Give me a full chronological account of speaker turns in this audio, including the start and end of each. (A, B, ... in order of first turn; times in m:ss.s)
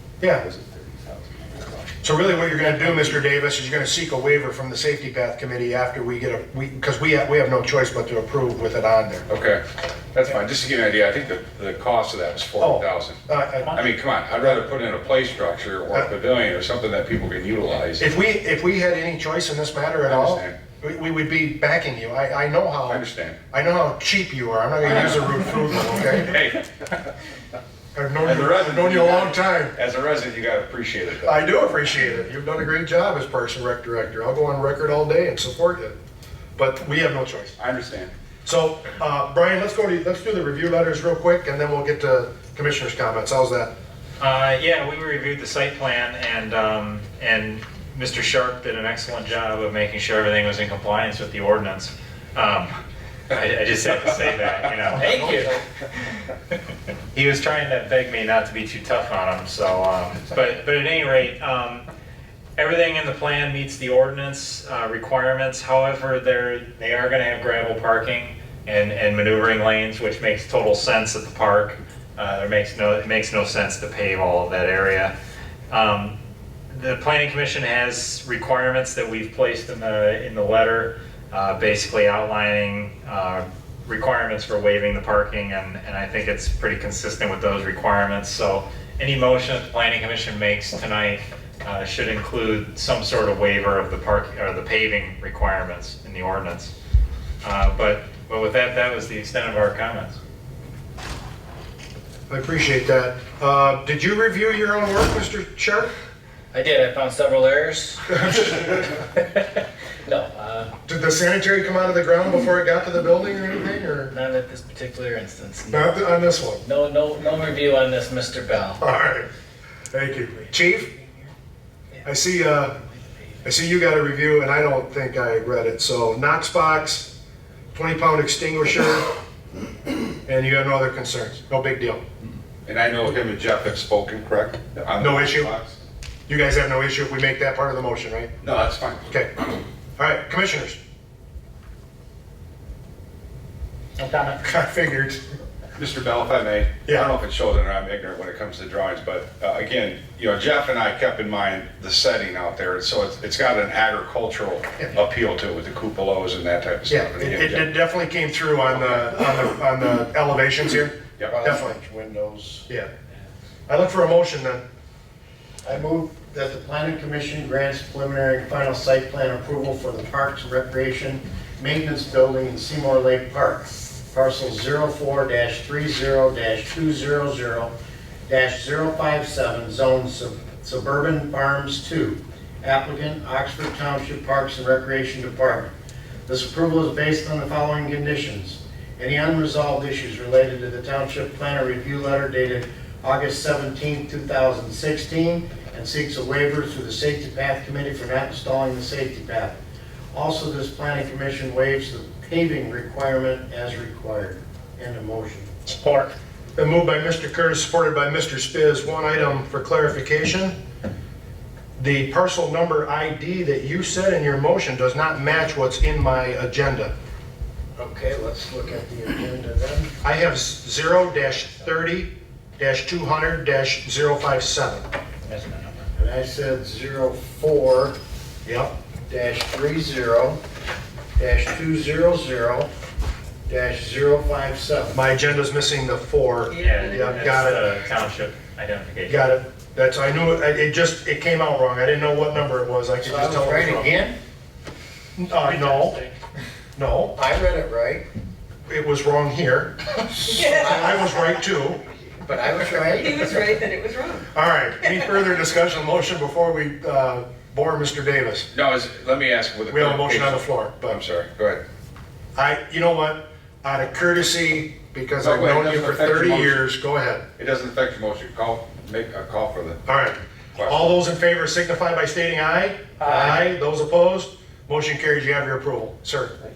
0:00.2-0:00.4 A
0:00.4-0:01.6 B
0:02.0-0:09.3 A
0:09.3-0:09.6 B
0:10.1-0:13.2 B
0:12.6-0:13.8 A
0:13.7-0:18.1 B
0:18.0-0:26.4 A
0:20.0-0:20.6 B
0:22.9-0:23.4 B
0:24.8-0:25.3 B
0:26.1-0:27.1 B
0:28.0-0:29.8 A
0:28.2-0:31.4 B
0:31.2-0:36.0 A
0:36.6-0:37.6 A
0:37.6-0:38.1 B
0:38.4-0:43.7 A
0:44.2-0:52.8 C
0:53.3-0:55.5 C
0:55.0-0:55.6 D
0:57.1-1:01.9 C
1:02.6-1:15.1 C
1:15.7-1:16.2 C
1:16.7-1:36.7 C
1:37.4-1:40.2 C
1:42.3-1:45.9 A
1:46.5-1:50.7 D
1:50.9-1:54.1 A
1:54.1-1:56.1 D
1:55.7-1:56.6 A
1:56.6-1:58.8 D
1:58.8-1:59.3 A
1:59.9-2:00.9 A
2:02.0-2:02.8 A
2:03.4-2:07.1 A
2:07.7-2:09.1 A
2:10.2-2:12.0 A
2:12.6-2:15.8 B
2:15.0-2:15.5 A
2:16.3-2:18.3 A
2:18.4-2:19.2 B
2:20.0-2:20.8 A
2:24.3-2:25.2 A
2:25.8-2:37.7 B
2:26.9-2:27.1 A
2:36.9-2:41.8 A
2:41.3-2:42.7 E
2:43.7-2:44.6 A
2:45.6-2:57.7 E
2:58.3-3:05.7 E
3:06.3-3:19.6 E
3:20.1-3:25.5 E
3:25.8-3:26.1 C
3:26.6-3:30.6 A
3:31.8-3:36.9 A
3:37.8-3:39.9 E
3:40.0-3:44.9 A
3:45.3-3:45.8 D
3:46.0-3:48.0 E
3:48.4-3:48.7 A
3:49.1-3:50.4 E
3:51.2-3:52.7 E
3:53.5-3:55.0 E
3:54.9-3:57.7 A
3:56.5-3:57.2 F
3:56.6-3:59.2 C
3:59.1-4:04.0 A
4:03.0-4:04.2 E
4:05.2-4:06.0 A
4:05.4-4:06.2 C
4:06.8-4:07.2 A
4:07.2-4:08.0 E
4:08.7-4:11.8 A
4:10.3-4:10.8 F
4:10.4-4:11.1 E
4:12.2-4:13.4 E
4:13.0-4:14.3 F
4:14.3-4:18.5 A
4:18.5-4:21.6 B
4:19.7-4:21.0 A
4:22.4-4:27.2 A
4:25.2-4:26.6 B
4:27.4-4:29.8 B
4:29.8-4:36.3 A
4:30.5-4:31.0 B